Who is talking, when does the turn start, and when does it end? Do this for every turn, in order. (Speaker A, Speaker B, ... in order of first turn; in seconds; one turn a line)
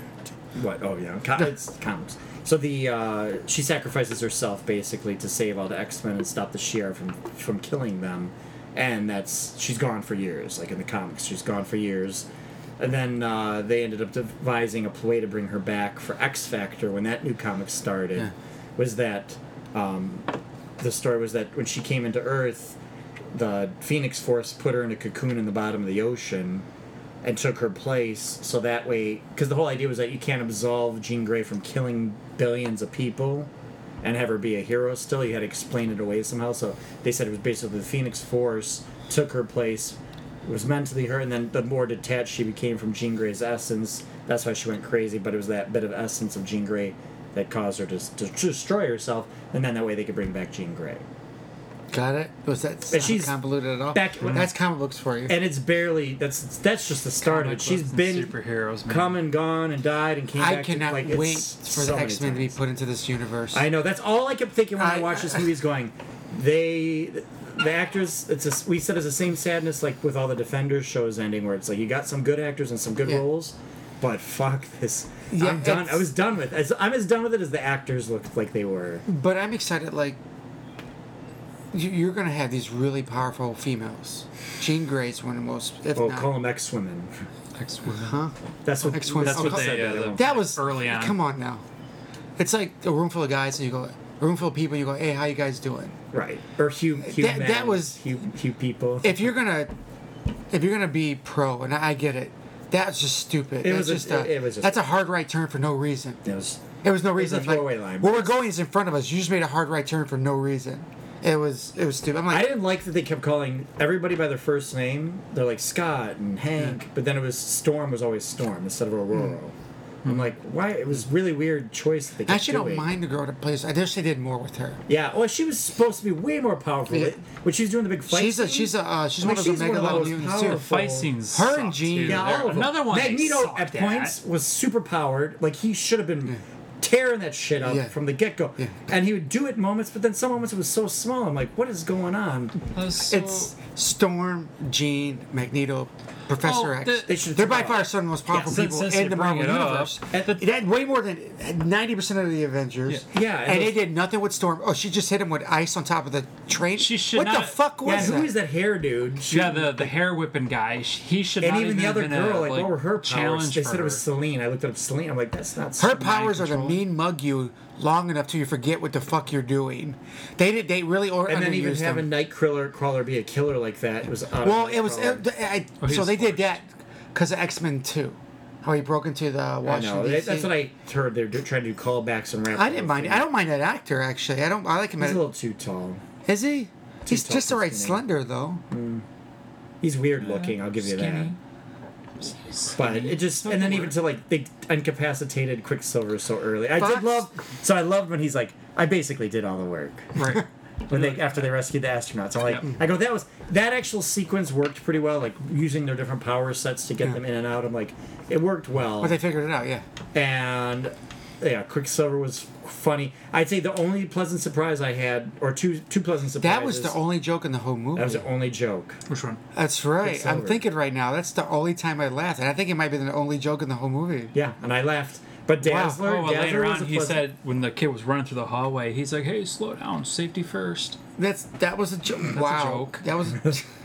Speaker A: 0.5-12.2
Speaker A: 12.8-22.8
Speaker A: 23.3-26.6
Speaker A: 27.2-33.5
Speaker A: 34.0-51.0
Speaker B: 51.9-55.3
Speaker A: 52.9-53.4
Speaker A: 53.9-54.5
Speaker A: 55.3-58.3
Speaker C: 57.2-59.2
Speaker A: 58.9-62.6
Speaker B: 60.4-63.6
Speaker A: 63.5-79.0
Speaker B: 64.8-65.5
Speaker B: 75.3-76.1
Speaker B: 79.1-80.2
Speaker B: 81.7-86.3
Speaker A: 86.0-87.1
Speaker C: 87.5-88.2
Speaker B: 88.0-91.6
Speaker A: 88.6-90.5
Speaker C: 88.9-91.2
Speaker B: 92.4-96.0
Speaker A: 96.1-99.3
Speaker B: 97.0-98.0
Speaker B: 99.0-99.7
Speaker B: 100.5-106.2
Speaker A: 103.6-104.8
Speaker A: 106.2-106.6
Speaker B: 106.8-112.5
Speaker A: 107.2-108.3
Speaker A: 112.3-122.9
Speaker B: 122.3-124.8
Speaker A: 124.9-131.1
Speaker B: 126.9-127.2
Speaker B: 128.1-130.6
Speaker C: 129.8-134.2
Speaker B: 131.3-132.6
Speaker A: 132.0-142.6
Speaker B: 137.6-137.9
Speaker C: 142.7-143.5
Speaker B: 142.9-158.3
Speaker C: 146.4-147.2
Speaker A: 147.1-148.6
Speaker C: 148.3-150.4
Speaker A: 153.1-153.8
Speaker C: 156.7-157.6
Speaker A: 157.8-159.9
Speaker C: 159.2-164.0
Speaker A: 161.4-166.7
Speaker B: 165.8-172.1
Speaker C: 165.9-166.8
Speaker A: 171.3-175.2
Speaker B: 174.4-180.5
Speaker C: 175.8-176.4
Speaker A: 179.6-183.3
Speaker B: 182.5-185.3
Speaker A: 185.0-186.0
Speaker B: 186.2-188.6
Speaker A: 187.1-188.0
Speaker A: 188.7-189.0
Speaker A: 189.8-191.3
Speaker C: 190.2-191.4
Speaker C: 192.2-194.0
Speaker A: 192.7-209.2
Speaker B: 196.8-197.2
Speaker C: 200.2-201.5
Speaker B: 209.0-209.8
Speaker A: 210.1-217.0
Speaker B: 216.4-218.2
Speaker A: 217.9-219.0
Speaker C: 219.1-219.4
Speaker B: 219.5-224.3
Speaker A: 220.0-220.6
Speaker A: 224.3-227.2
Speaker B: 225.6-226.0
Speaker C: 226.0-231.0
Speaker B: 231.2-233.6
Speaker C: 232.3-233.0